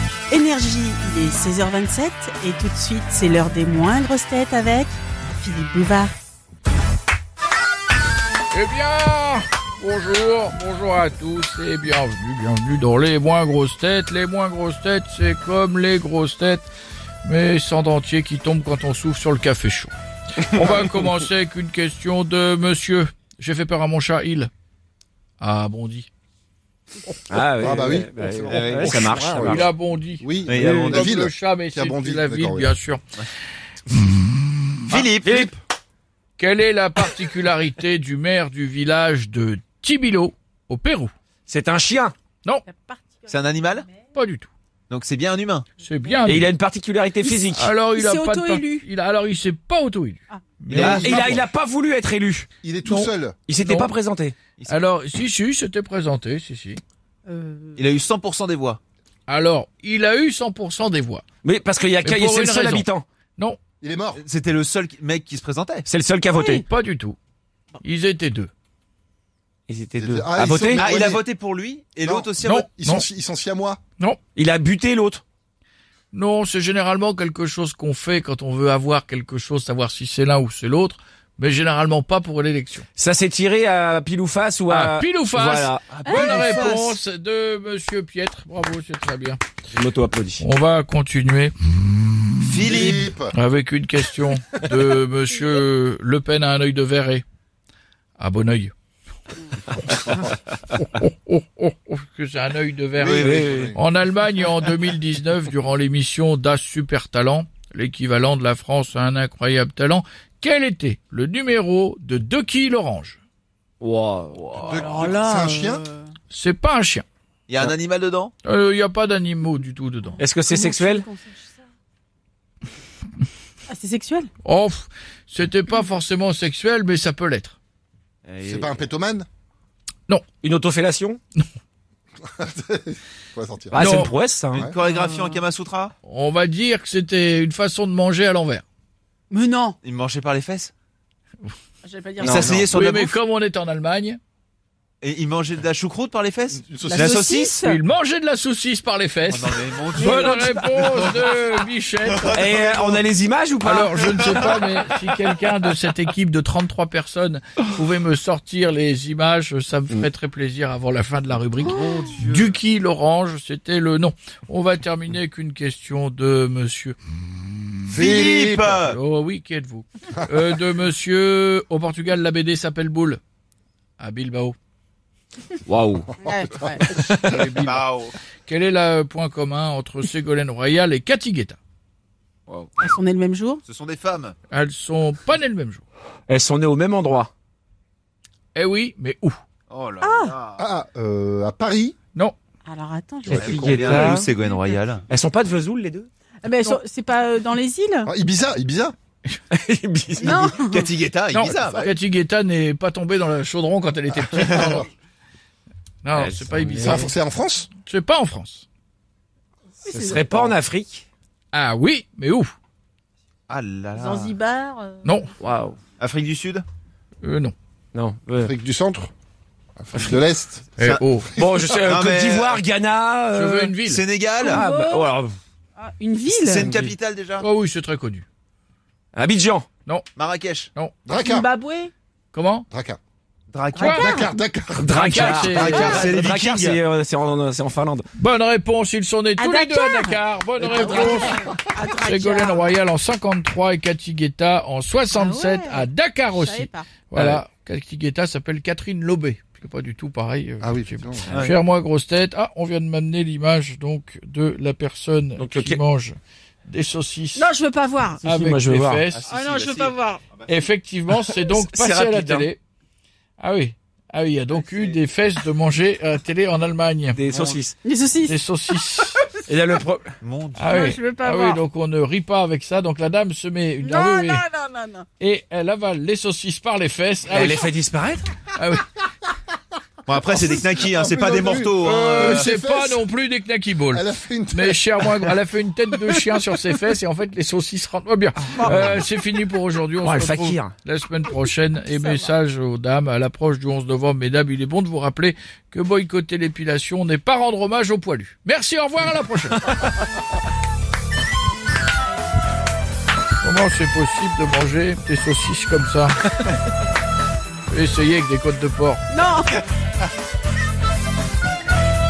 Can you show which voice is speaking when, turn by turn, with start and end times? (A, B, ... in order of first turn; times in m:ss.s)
0:00.3-0:06.2 A
0:08.5-0:16.7 B
0:17.2-0:24.5 B
0:25.4-0:26.1 B
0:27.3-0:29.7 C
0:27.6-0:32.7 D
0:28.5-0:29.1 E
0:29.3-0:33.0 B
0:30.5-0:31.1 E
0:30.6-0:31.0 C
0:34.0-0:34.7 B
0:34.9-0:35.5 E
0:35.2-0:35.5 C
0:36.4-0:41.1 B
0:41.5-0:42.2 C
0:42.7-0:43.9 A
0:43.3-0:43.9 E
0:44.1-0:44.5 B
0:44.9-0:45.7 E
0:45.8-0:46.5 B
0:46.3-0:47.7 C
0:47.2-0:48.9 A
0:47.5-0:51.5 B
0:50.7-0:51.4 D
0:50.7-0:51.2 E
0:51.0-0:52.5 C
0:52.6-0:53.4 D
0:52.8-0:53.9 B
0:53.5-0:54.4 C
0:54.7-0:56.8 B
0:57.3-0:57.8 A
0:57.8-0:58.8 E
0:59.3-1:01.2 B
1:01.4-1:03.0 C
1:02.0-1:03.6 B
1:03.8-1:04.2 D
1:04.2-1:05.9 E
1:05.9-1:06.6 C
1:06.3-1:06.6 A
1:06.5-1:07.2 B
1:07.8-1:08.5 B
1:09.7-1:10.8 C
1:10.0-1:11.2 D
1:10.7-1:12.7 E
1:12.0-1:13.8 D
1:12.4-1:13.1 B
1:14.4-1:15.2 C
1:16.1-1:22.8 B
1:23.0-1:25.8 C
1:24.7-1:29.4 B
1:25.4-1:27.0 E
1:26.1-1:26.6 A
1:29.7-1:30.4 C
1:30.4-1:31.5 B
1:32.4-1:33.1 E
1:32.6-1:37.2 B
1:32.7-1:33.3 D
1:38.2-1:38.7 B
1:40.8-1:53.2 B
1:43.0-1:43.7 E
1:43.1-1:43.7 C
1:43.2-1:43.8 D
1:53.8-1:54.8 C
1:54.4-1:54.9 E
1:54.6-1:55.8 D
1:54.8-1:56.0 A
1:56.3-1:57.0 B
1:57.5-1:58.3 E
1:58.4-2:00.2 B
2:00.2-2:01.1 C
2:00.5-2:01.6 A
2:03.7-2:04.3 A
2:04.4-2:07.6 B
2:08.3-2:08.9 E
2:08.4-2:09.3 D
2:10.4-2:11.2 C
2:12.4-2:13.8 D
2:13.7-2:14.6 C
2:13.8-2:14.1 B
2:14.5-2:15.9 E
2:14.8-2:15.4 A
2:16.0-2:18.6 B
2:19.3-2:19.8 A
2:19.8-2:20.7 E
2:21.8-2:22.6 A
2:22.2-2:23.2 E
2:22.2-2:22.6 C
2:22.7-2:24.2 B
2:25.0-2:27.6 E
2:26.6-2:27.1 D
2:26.8-2:27.8 A
2:27.6-2:32.9 B
2:29.3-2:31.6 E
2:30.0-2:30.5 A
2:32.1-2:32.5 E
2:32.3-2:34.4 C
2:33.6-2:47.0 B
2:42.0-2:42.5 E
2:47.9-2:48.8 D
2:48.0-2:49.0 E
2:48.8-2:53.2 B
2:54.0-2:54.6 B
2:55.7-2:56.0 C
2:56.2-2:56.9 A
2:56.3-2:57.4 D
2:56.9-2:57.8 B
2:57.6-2:58.1 E
2:58.5-3:01.6 B
3:02.8-3:03.6 A
3:03.7-3:04.4 E
3:04.5-3:05.8 B
3:06.3-3:07.3 C
3:08.5-3:09.4 B
3:09.7-3:10.6 E
3:10.0-3:10.3 A
3:10.6-3:12.0 D
3:12.6-3:13.6 A
3:13.2-3:14.1 D
3:13.4-3:15.0 E
3:13.5-3:14.3 C
3:14.3-3:14.8 A
3:15.1-3:16.1 C
3:16.4-3:18.1 A
3:18.1-3:19.0 D
3:19.5-3:20.5 C
3:20.2-3:20.9 A
3:20.7-3:21.9 E
3:21.3-3:24.9 B
3:21.4-3:21.9 D
3:24.2-3:24.9 D
3:24.4-3:24.8 E
3:26.0-3:27.1 B
3:26.1-3:27.1 C
3:26.8-3:27.7 D
3:27.8-3:28.7 B
3:29.8-3:30.2 A
3:29.9-3:31.0 C
3:31.5-3:32.5 B
3:33.5-3:34.4 E
3:34.0-3:35.2 A
3:35.0-3:35.3 B
3:35.4-3:35.8 C
3:36.0-3:36.6 E
3:37.2-3:37.5 B
3:37.9-3:38.5 C
3:38.4-3:39.1 D
3:39.8-3:40.8 D
3:39.9-3:40.2 C
3:40.8-3:41.3 B
3:40.8-3:41.0 E
3:41.4-3:43.8 C
3:41.4-3:41.6 D
3:41.8-3:42.6 E
3:43.3-3:44.0 B
3:43.8-3:44.6 E
3:44.4-3:45.1 A
3:44.5-3:45.4 C
3:45.8-3:46.8 A
3:46.3-3:47.4 E
3:46.6-3:47.0 C
3:47.4-3:48.2 B
3:49.1-3:49.7 C
3:50.2-3:50.7 E
3:51.1-3:51.5 D
3:51.2-3:51.9 A
3:52.3-3:52.7 B
3:52.7-3:53.0 D
3:53.5-3:54.2 E
3:53.7-3:54.3 A
3:53.8-3:54.1 B
3:53.9-3:55.2 D
3:54.7-3:58.0 C
3:54.9-3:56.1 B
3:55.2-3:56.8 E
3:58.2-4:16.2 B
3:59.4-4:02.7 A
4:05.1-4:06.9 A
4:07.1-4:07.4 C
4:10.6-4:11.3 D
4:15.4-4:15.8 C
4:16.7-4:17.5 B
4:17.4-4:18.2 A
4:18.2-4:19.2 B
4:18.3-4:19.1 C
4:19.1-4:20.4 E
4:19.3-4:20.2 A
4:20.5-4:22.6 B
4:21.5-4:22.5 C
4:23.4-4:27.2 B
4:27.1-4:27.8 C
4:27.3-4:27.6 E
4:27.8-4:28.4 A
4:28.2-4:29.2 B
4:29.5-4:30.2 C
4:30.2-4:30.7 E
4:30.6-4:34.5 B
4:30.7-4:31.6 A
4:33.8-4:35.1 A
4:35.2-4:37.7 B
4:37.3-4:38.3 C
4:38.5-4:38.9 B
4:40.1-4:42.5 E
4:40.3-4:43.0 D
4:41.8-4:59.7 B
4:43.9-4:45.4 D
4:48.6-4:48.9 C
4:50.0-4:50.7 C
5:03.4-5:06.2 B
5:07.7-5:09.1 B
5:09.1-5:09.6 A